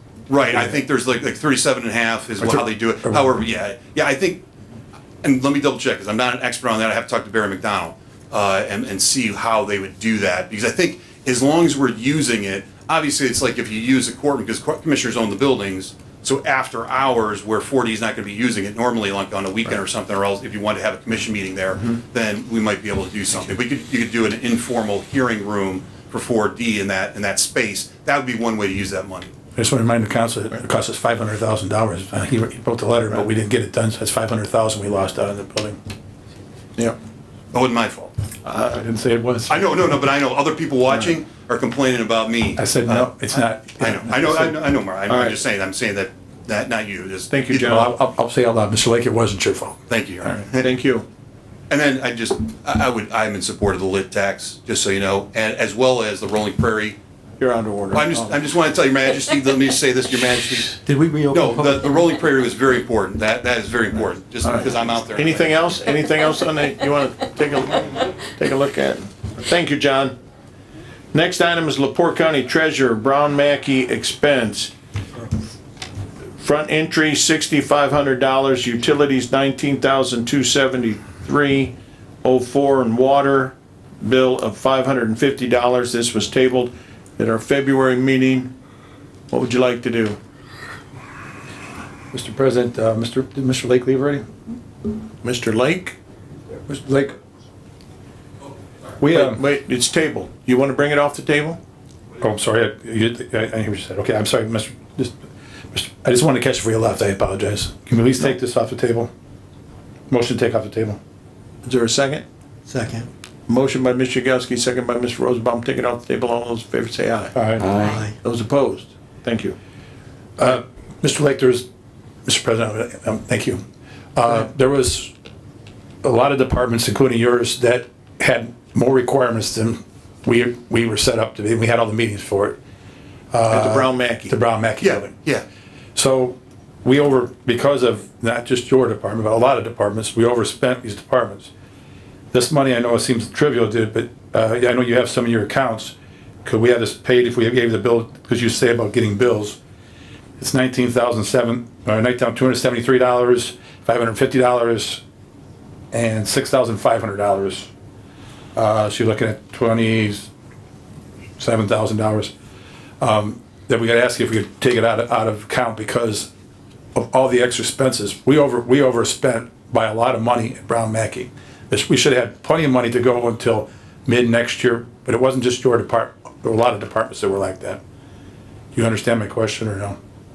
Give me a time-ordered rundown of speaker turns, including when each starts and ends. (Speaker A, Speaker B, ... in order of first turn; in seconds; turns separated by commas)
Speaker A: 0.3-4.4, Speaker B: 2.4-3.3, Speaker A: 5.2-29.3, Speaker B: 29.5-35.8, Speaker A: 37.5-38.1, Speaker C: 38.4-38.8, Speaker B: 38.7-39.7, Speaker A: 39.5-47.9, Speaker B: 42.6-44.6, Speaker C: 45.1-45.4, Speaker C: 47.3-47.9, Speaker B: 47.6-50.4, Speaker A: 49.9-50.7, Speaker C: 50.6-51.0, Speaker A: 51.7-57.0, Speaker C: 57.4-58.4, Speaker A: 57.9-60.8, Speaker D: 60.8-62.1, Speaker A: 61.3-65.6, Speaker C: 64.4-70.1, Speaker C: 71.1-74.7, Speaker C: 76.4-88.5, Speaker C: 89.3-90.2, Speaker B: 92.1-94.2, Speaker C: 95.2-96.0, Speaker B: 96.7-97.2, Speaker B: 99.0-99.4, Speaker C: 99.0-101.6, Speaker B: 102.2-105.2, Speaker B: 105.7-109.1, Speaker B: 110.1-111.0, Speaker C: 111.6-112.2, Speaker D: 112.7-113.1, Speaker C: 113.5-119.5, Speaker B: 117.3-117.8, Speaker D: 117.6-118.1, Speaker B: 120.4-121.6, Speaker B: 122.2-123.6, Speaker B: 124.2-125.1, Speaker B: 126.0-132.6, Speaker B: 133.3-135.1, Speaker C: 133.5-134.3, Speaker A: 134.8-135.4, Speaker B: 135.9-141.5, Speaker B: 142.3-145.9, Speaker B: 146.4-149.6, Speaker B: 150.4-155.0, Speaker B: 155.9-157.7, Speaker B: 158.5-160.3, Speaker B: 161.4-162.3, Speaker B: 163.0-166.3, Speaker B: 166.9-177.8, Speaker B: 178.7-180.0